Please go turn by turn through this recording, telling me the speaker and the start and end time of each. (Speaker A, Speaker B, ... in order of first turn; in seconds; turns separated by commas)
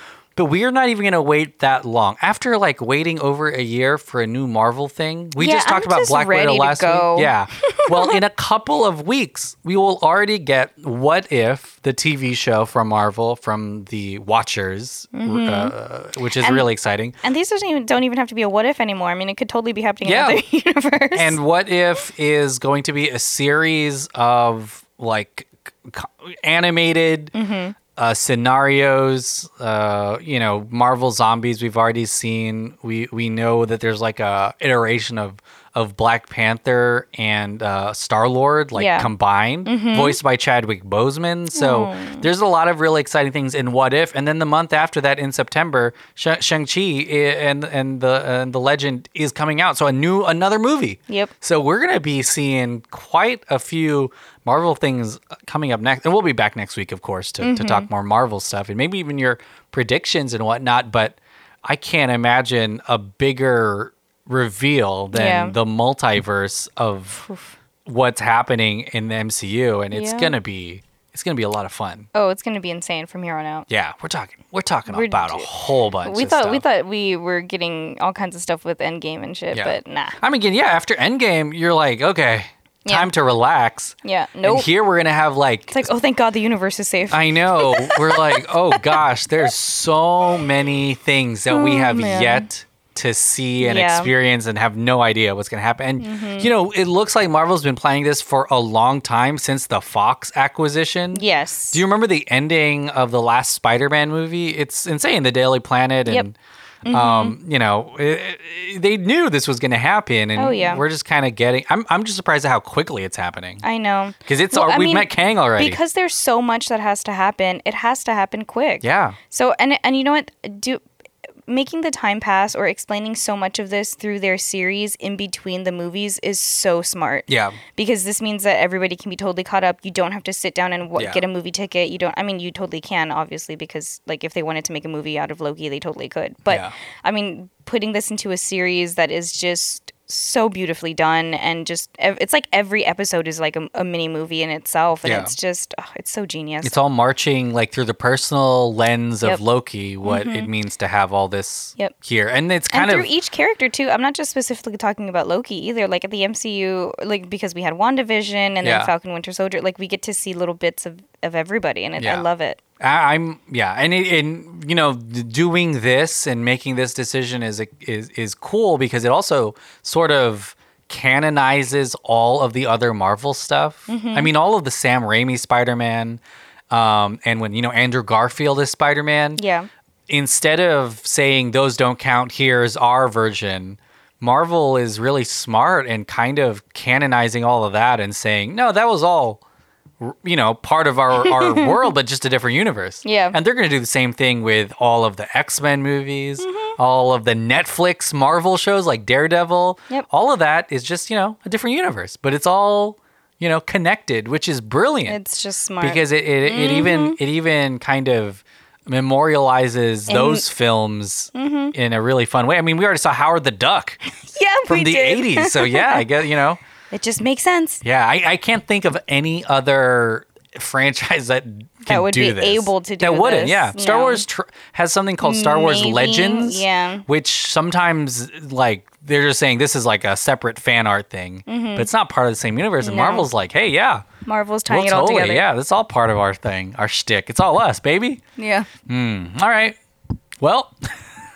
Speaker A: 0.3-17.1, Speaker B: 5.4-8.2, Speaker B: 15.1-15.7, Speaker B: 16.4-16.7, Speaker B: 17.2-21.4, Speaker A: 20.0-20.4, Speaker A: 21.1-27.3, Speaker B: 27.3-27.8, Speaker A: 27.9-67.2, Speaker B: 38.7-39.1, Speaker B: 39.6-40.2, Speaker B: 41.5-42.3, Speaker B: 57.4-57.9, Speaker B: 65.1-65.5, Speaker B: 67.2-67.5, Speaker A: 67.8-72.1, Speaker B: 69.9-70.3, Speaker B: 72.1-73.7, Speaker A: 73.7-76.6, Speaker B: 74.9-75.5, Speaker B: 76.0-80.2, Speaker A: 79.5-85.8, Speaker B: 82.8-83.1, Speaker B: 84.0-84.7, Speaker B: 85.7-89.0, Speaker A: 87.1-106.3, Speaker B: 91.5-92.5, Speaker B: 93.6-94.1, Speaker B: 96.0-96.5, Speaker B: 101.1-101.8, Speaker B: 106.8-107.3, Speaker A: 106.9-113.6, Speaker B: 110.3-110.8, Speaker B: 113.6-120.8, Speaker A: 114.2-115.8, Speaker A: 118.8-119.2, Speaker B: 121.5-146.7, Speaker A: 127.3-127.6, Speaker A: 130.9-131.2, Speaker A: 136.5-136.7, Speaker A: 145.0-145.3, Speaker A: 146.6-153.1, Speaker B: 150.0-150.5, Speaker B: 152.7-162.6, Speaker A: 158.6-158.9, Speaker A: 162.0-162.2, Speaker A: 162.8-179.4, Speaker B: 173.9-174.3, Speaker B: 179.4-179.7, Speaker A: 180.1-189.4, Speaker A: 190.0-205.2, Speaker B: 191.2-191.7, Speaker B: 193.0-193.4, Speaker B: 196.4-196.8, Speaker B: 205.1-207.2, Speaker A: 205.8-214.0, Speaker B: 210.1-210.5, Speaker B: 211.3-211.7, Speaker B: 214.2-216.1, Speaker A: 214.7-216.6, Speaker B: 216.9-217.8, Speaker A: 217.8-234.1, Speaker B: 221.8-224.2, Speaker B: 225.2-227.1, Speaker B: 231.5-231.9, Speaker B: 232.8-233.3, Speaker B: 234.2-235.4, Speaker A: 234.7-238.2, Speaker B: 238.4-238.7, Speaker A: 238.9-239.8, Speaker A: 240.4-240.9